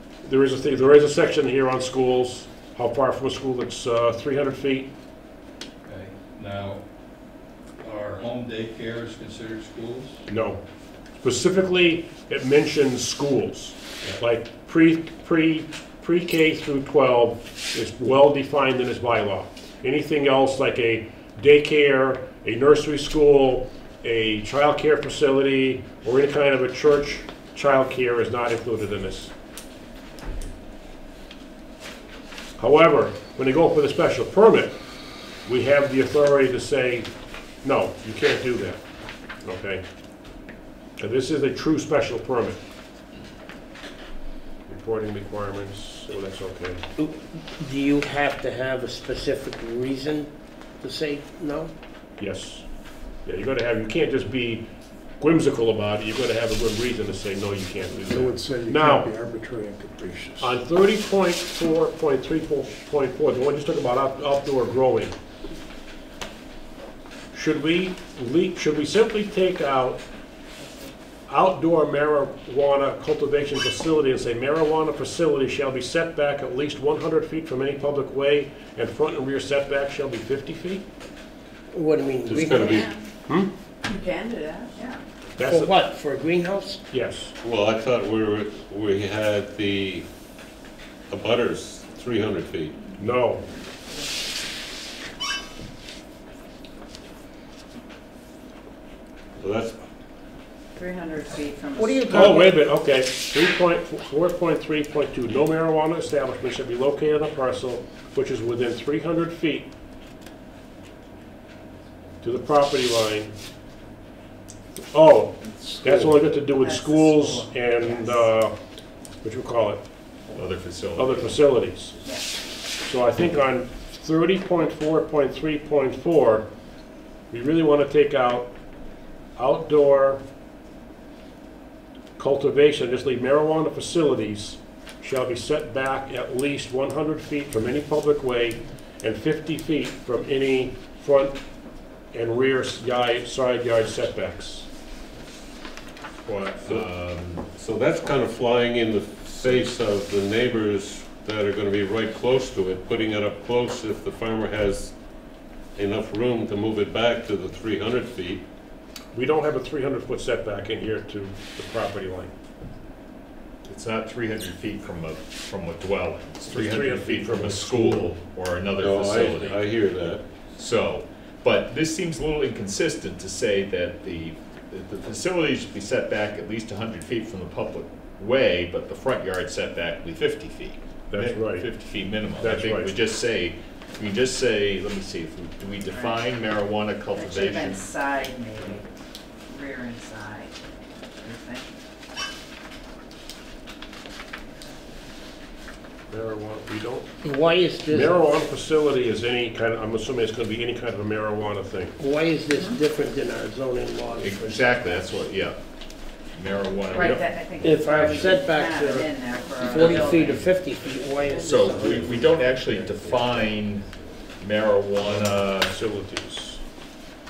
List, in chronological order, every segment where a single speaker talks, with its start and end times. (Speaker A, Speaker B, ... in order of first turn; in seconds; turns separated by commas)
Speaker A: 0.2-4.9, Speaker B: 5.9-6.8, Speaker B: 7.8-10.2, Speaker A: 10.3-10.6, Speaker A: 11.2-29.3, Speaker A: 32.6-34.8, Speaker A: 35.5-37.1, Speaker A: 37.6-38.8, Speaker A: 39.4-39.8, Speaker A: 41.0-42.6, Speaker A: 44.7-46.8, Speaker C: 47.0-50.3, Speaker C: 50.8-51.7, Speaker A: 52.2-52.6, Speaker A: 53.2-54.6, Speaker A: 55.2-59.1, Speaker D: 58.0-60.6, Speaker A: 60.4-65.1, Speaker A: 67.3-70.0, Speaker A: 71.3-80.8, Speaker C: 81.7-82.9, Speaker E: 82.3-83.0, Speaker F: 82.5-82.9, Speaker E: 83.8-85.0, Speaker A: 85.4-85.7, Speaker C: 85.4-86.8, Speaker A: 86.9-87.3, Speaker F: 87.4-90.1, Speaker F: 91.1-92.8, Speaker A: 93.0-93.4, Speaker F: 99.4-99.8, Speaker E: 100.8-102.5, Speaker C: 101.8-102.6, Speaker A: 102.1-109.7, Speaker A: 112.2-113.3, Speaker A: 114.9-118.6, Speaker E: 116.5-118.2, Speaker A: 119.2-119.8, Speaker G: 120.3-121.4, Speaker A: 121.0-122.0, Speaker E: 122.0-122.3, Speaker A: 122.8-126.5, Speaker A: 127.3-128.5, Speaker A: 129.4-130.2, Speaker A: 132.2-141.4, Speaker A: 142.1-144.7, Speaker G: 146.3-147.5, Speaker F: 147.6-154.9, Speaker F: 155.8-158.4, Speaker A: 159.2-162.3, Speaker G: 163.7-169.7, Speaker A: 166.5-168.1, Speaker F: 168.8-170.2, Speaker G: 170.6-187.9, Speaker A: 181.1-181.7, Speaker A: 182.4-182.9, Speaker E: 185.9-186.3, Speaker E: 187.1-188.9, Speaker E: 189.5-190.6, Speaker E: 191.2-191.7, Speaker A: 196.1-197.1, Speaker C: 197.2-198.2, Speaker A: 197.9-202.0, Speaker C: 202.0-204.4, Speaker E: 202.5-202.8, Speaker G: 204.2-205.6, Speaker G: 206.3-207.3, Speaker E: 206.9-210.5, Speaker C: 207.6-212.1, Speaker G: 207.8-208.4, Speaker E: 211.3-211.7, Speaker G: 211.4-213.9, Speaker G: 214.4-215.7, Speaker A: 215.0-216.6